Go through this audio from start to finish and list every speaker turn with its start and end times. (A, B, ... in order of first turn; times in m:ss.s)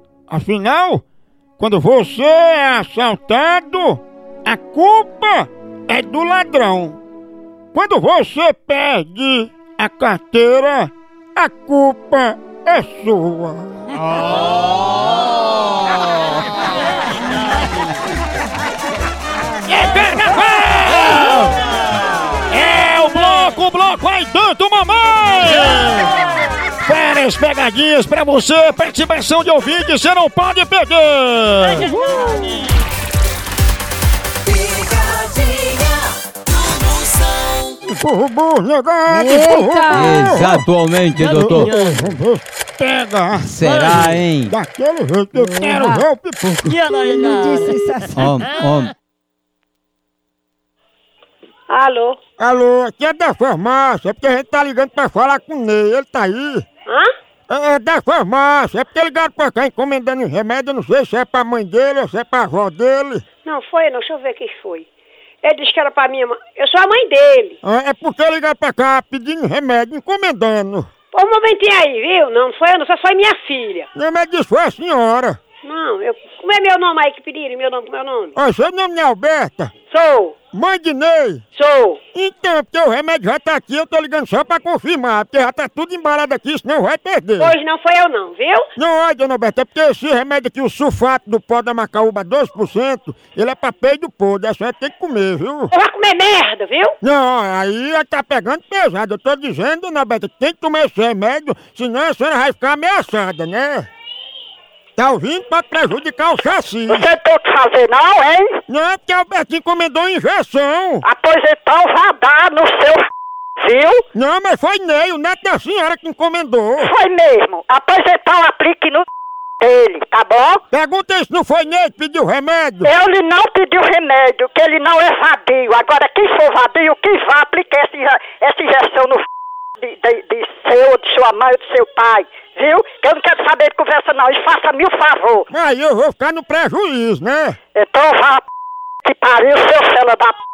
0:00.3-0:01.0 A
0:01.6-0:07.0 A
0:07.7-0:13.8 A
0:19.6-0:21.6 A
0:22.5-0:26.1 A
0:26.8-0:32.0 A
0:32.0-0:32.3 B
0:37.8-0:40.6 A
0:39.2-0:41.9 B
0:41.2-0:46.8 A
0:43.4-0:44.5 B
0:45.7-0:46.0 B
0:47.0-0:48.9 B
0:51.7-0:52.2 C
0:52.4-0:56.6 A
0:57.5-1:03.2 A
1:03.4-1:04.9 C
1:05.4-1:07.6 C
1:07.6-1:10.9 A
1:11.1-1:13.9 C
1:13.9-1:15.4 A
1:15.6-1:18.3 C
1:18.4-1:19.7 A
1:19.9-1:20.4 C
1:20.5-1:21.4 A
1:21.5-1:22.0 C
1:22.1-1:27.6 A
1:27.4-1:28.7 C
1:28.8-1:35.7 A
1:35.7-1:37.0 C
1:37.0-1:43.9 A
1:45.0-1:47.1 A
1:46.9-1:48.6 D
1:48.7-1:51.0 A
1:51.0-1:53.1 D
1:53.6-1:54.0 D
1:54.1-1:56.9 A
1:56.8-1:59.0 D
1:59.6-2:00.6 D
2:00.7-2:02.9 A
2:02.8-2:09.2 D
2:09.8-2:15.5 D
2:15.5-2:17.6 A
2:17.7-2:18.4 D
2:19.0-2:20.3 D